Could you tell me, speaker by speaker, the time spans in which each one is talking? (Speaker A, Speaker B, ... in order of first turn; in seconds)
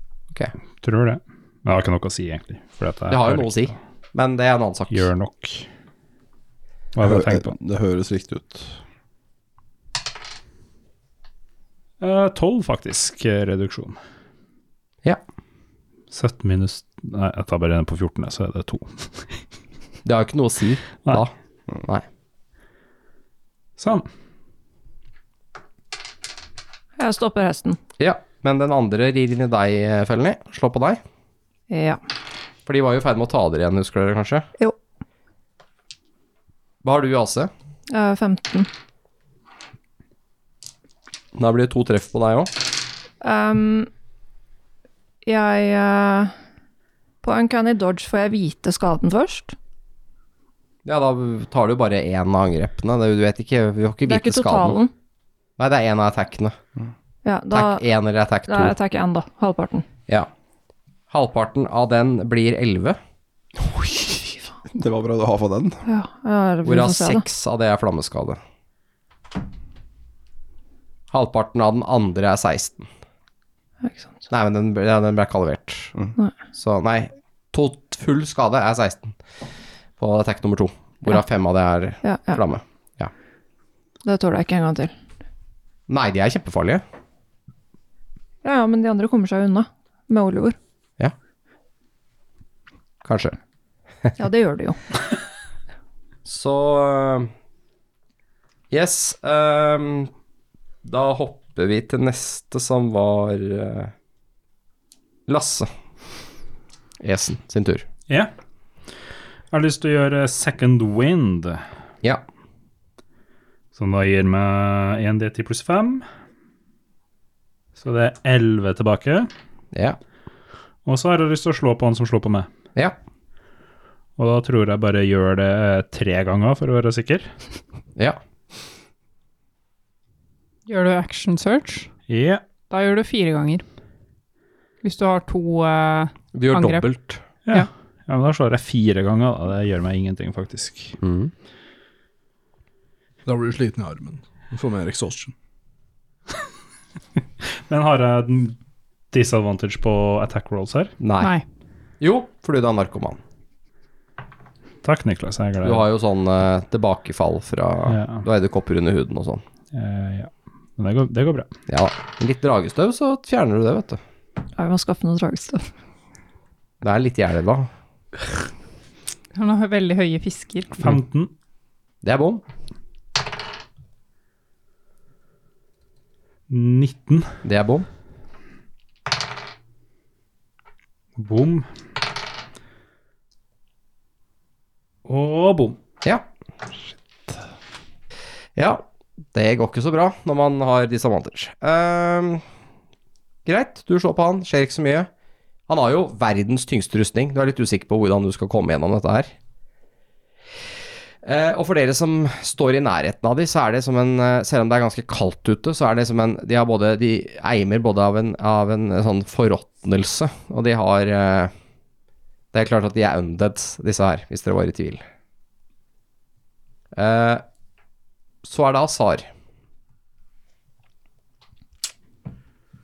Speaker A: 0.8-3.8, 4.9-5.7, 6.9-7.5, 12.0-14.0, 16.1-19.4, 23.8-24.1, 109.5-111.6, 113.8-116.1, 117.8-119.3, 120.9-122.5, 124.2-127.3, 132.1-132.4, 137.5-141.0, 147.7-148.6, 149.1-150.9, 154.8-155.9, 157.9-158.2, 159.7-161.5, 170.8-171.3, 176.5-177.3, 181.2-181.7, 185.1-185.8
Speaker B: 3.1-5.1, 20.1-22.1, 28.0-31.0, 32.7-34.5, 36.8-37.5, 41.4-42.5, 50.9-54.8, 55.6-56.6, 57.5-58.8, 61.1-63.0, 66.7-68.4, 71.1-72.9, 74.3-75.9, 76.5-79.2, 80.0-83.1, 85.9-86.8, 93.0-93.4, 96.2-97.3, 98.7-100.1, 100.8-103.9, 105.3-105.7, 107.0-107.9, 119.7-120.0, 136.3-137.2, 141.0-141.3, 151.0-151.3, 152.0-153.2, 155.6-159.4, 161.7-164.0, 166.8-167.7, 172.0-172.4, 177.4-177.9, 188.6-188.8, 189.3-192.4, 193.4-195.1, 195.7-199.3, 201.2-211.5, 212.5-215.0, 216.9-217.4, 218.4-219.3
Speaker C: 7.0-8.8, 63.6-65.8
Speaker D: 27.0-27.8, 31.7-32.0, 37.9-38.7, 43.2-43.9, 45.2-46.3, 47.2-49.5, 54.1-54.9, 57.2-57.8, 58.5-59.9, 65.9-67.2, 82.0-82.4, 84.0-84.9, 88.4-90.6, 94.2-94.8, 164.6-165.7
Speaker E: 130.7-131.9, 132.7-133.6, 134.8-136.9, 151.2-151.4, 169.3-170.8
Speaker F: 143.3-145.3